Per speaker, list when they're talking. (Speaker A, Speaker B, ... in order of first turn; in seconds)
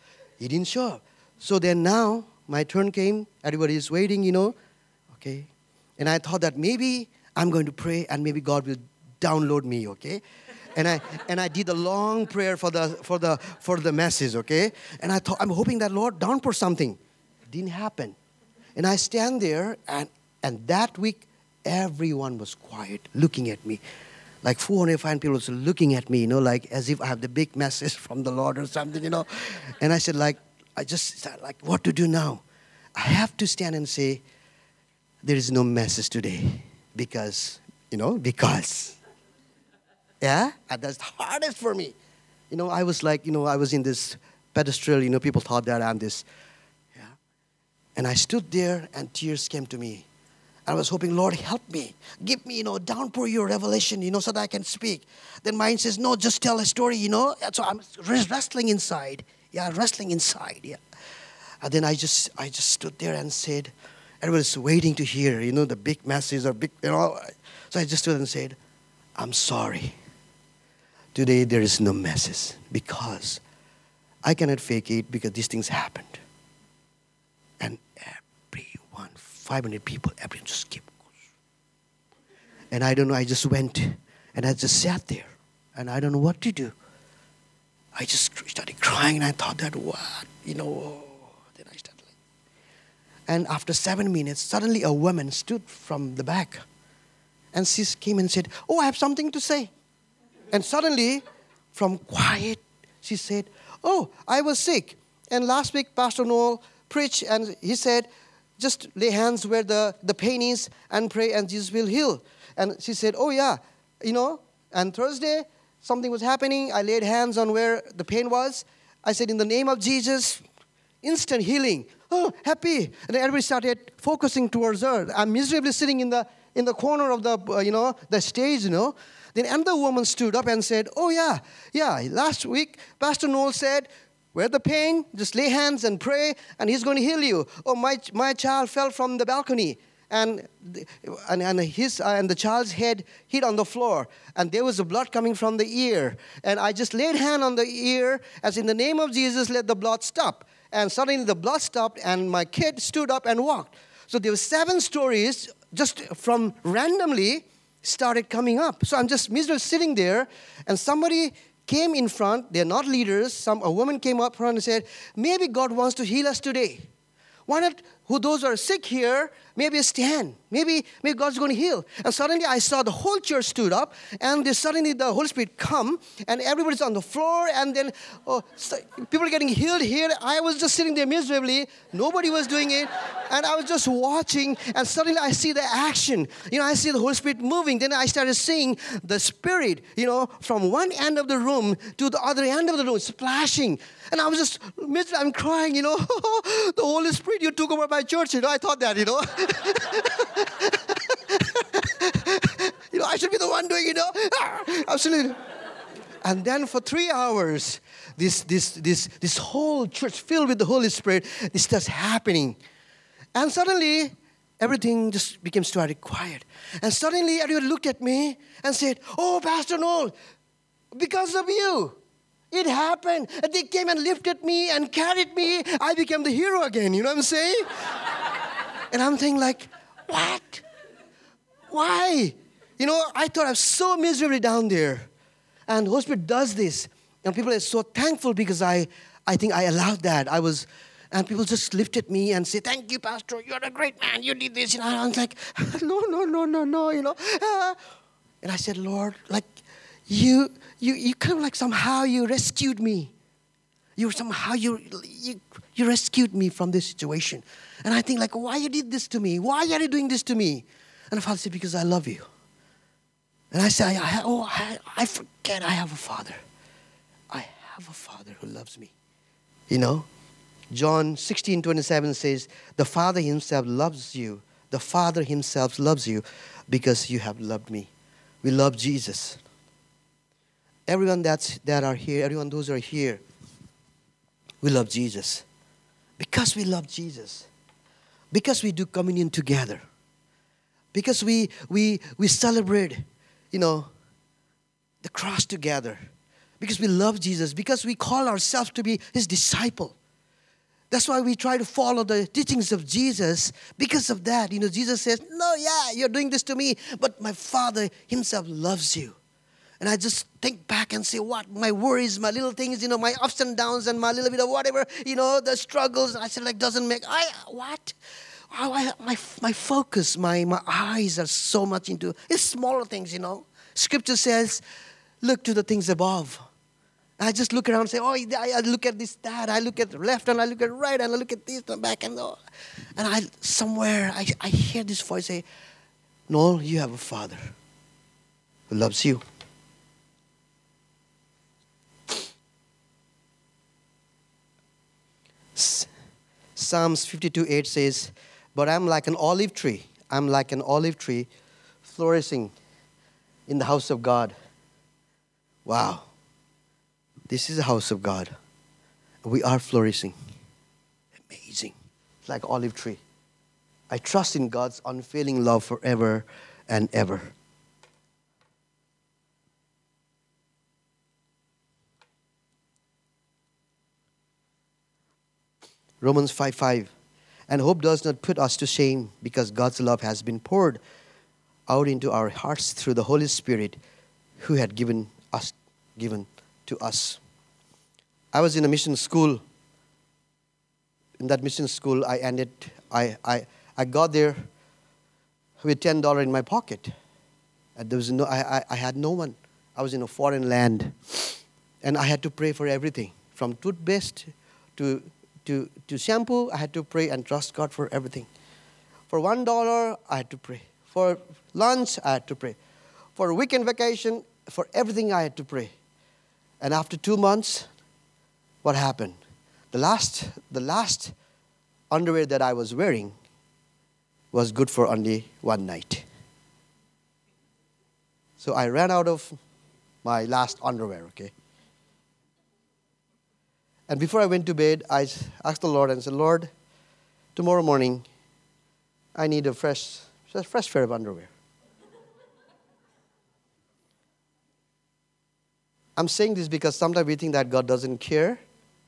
Speaker A: 0.4-4.5, 5.1-10.2, 10.8-17.0, 17.5-18.2, 18.8-23.8, 24.4-32.4, 33.0-34.2, 35.2-39.0, 40.2-42.0, 42.5-46.3, 48.0-50.1, 50.7-60.8, 61.6-68.6, 69.2-70.0, 71.2-73.4, 74.2-76.2, 77.6-81.0, 82.7-86.8, 88.0-92.1, 93.3-96.6, 97.5-99.7, 100.5-108.1, 108.6-120.4, 121.0-166.9, 167.5-205.4, 206.2-212.6, 213.3-220.1, 220.9-222.0, 222.5-227.7, 228.9-230.6, 231.7-235.1, 235.7-247.8, 248.4-249.5, 250.1-253.1, 254.0-262.3, 263.5-266.4, 267.3-268.9, 269.7-270.1, 270.7-277.9, 278.4-279.4, 280.9-283.2, 284.6-285.4, 286.2-287.5, 288.3-289.8, 290.9-293.9, 295.0-296.1, 296.6-300.0, 300.9-309.2, 309.8-318.0, 318.5-324.6, 325.2-326.4, 327.2-332.4, 333.0-335.4, 336.3-337.5, 338.7-339.2, 345.6-345.9, 346.6-351.3, 351.8-352.5, 353.5-354.4, 355.7-356.1, 357.3-358.3, 359.2-360.1, 361.2-361.7, 362.2-363.0, 363.9-367.3, 376.0-376.9, 377.5-380.8, 381.7-383.8, 384.4-387.2, 388.3-389.4, 391.2-394.4, 395.6-396.9, 397.8-408.3, 409.1-412.6, 413.2-415.7, 416.6-417.7, 418.6-419.2, 419.7-421.1, 421.9-423.1, 424.3-426.1, 428.4-429.4, 430.0-431.3, 433.9-436.5, 437.4-438.1, 439.1-441.3, 446.0-448.4